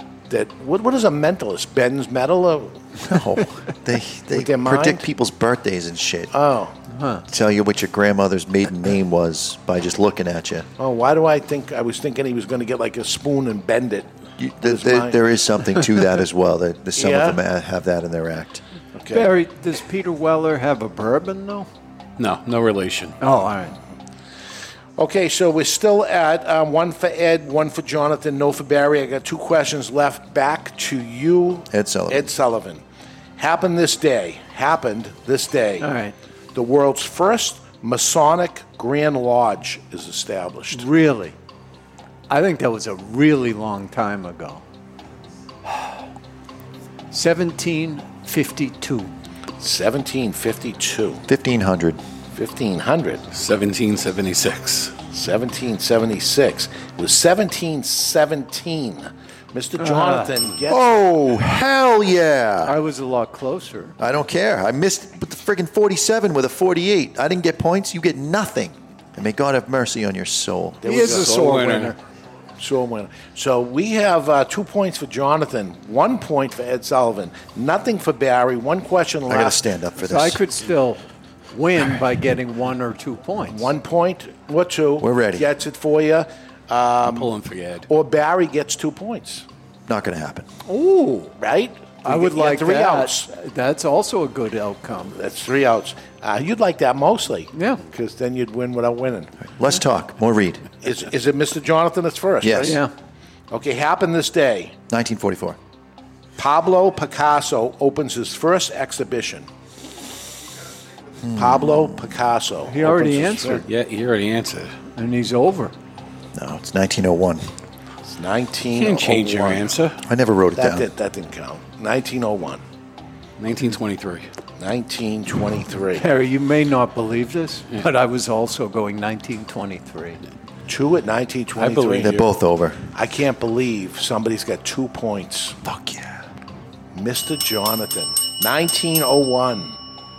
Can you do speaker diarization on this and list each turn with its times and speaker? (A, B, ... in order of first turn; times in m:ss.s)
0:00.3-0:03.0 A
0:03.0-0:06.3 B
0:04.3-0:05.0 A
0:06.3-0:06.8 A
0:06.9-0:07.2 C
0:07.3-0:10.7 B
0:10.8-0:14.1 A
0:14.4-0:18.6 B
0:14.6-0:15.2 A
0:17.0-0:17.4 A
0:18.9-0:19.3 A
0:19.1-0:21.7 C
0:22.2-0:23.2 D
0:23.2-0:23.7 C
0:25.0-0:32.8 A
0:31.7-0:32.3 B
0:33.4-0:35.9 A
0:35.8-0:36.1 C
0:36.5-0:40.9 A
0:40.7-0:41.4 C
0:42.3-0:44.6 C
0:47.1-0:49.1 C
0:49.6-0:51.2 A
0:51.2-0:52.0 B
0:52.3-0:53.2 A
0:53.3-0:55.0 D
0:55.0-1:00.9 A
0:59.8-1:00.3 C
1:00.7-1:02.7 B
1:02.6-1:04.0 C
1:04.0-1:10.8 B
1:10.8-1:11.6 A
1:10.8-1:12.0 C
1:11.1-1:11.9 D
1:12.6-1:19.6 A
1:19.3-1:20.4 B
1:20.0-1:23.7 C
1:23.4-1:27.3 A
1:25.0-1:25.5 B
1:27.0-1:27.9 D
1:27.9-1:29.4 A
1:29.9-1:30.5 B
1:30.6-1:31.3 C
1:31.4-1:33.3 A
1:32.0-1:35.1 C
1:35.1-1:39.3 A
1:37.5-1:37.8 C
1:39.4-1:40.7 B
1:40.8-1:42.8 A
1:42.4-1:42.8 B
1:42.6-1:42.9 C
1:43.5-1:44.8 A
1:44.9-1:45.6 B
1:46.4-1:49.5 A
1:51.2-1:52.1 B
1:51.4-1:53.7 A
1:52.6-1:53.6 C
1:53.7-1:54.8 D
1:54.9-1:55.7 C
1:56.3-1:57.5 B
1:58.0-1:59.8 A
1:58.8-2:00.0 D
2:00.0-2:00.9 B
2:00.6-2:02.6 A
2:03.4-2:04.3 D
2:04.6-2:06.1 A
2:06.0-2:10.2 C
2:10.7-2:12.2 A
2:11.6-2:12.3 D
2:12.0-2:12.8 B
2:12.9-2:15.6 A
2:15.7-2:16.0 B
2:16.9-2:19.8 A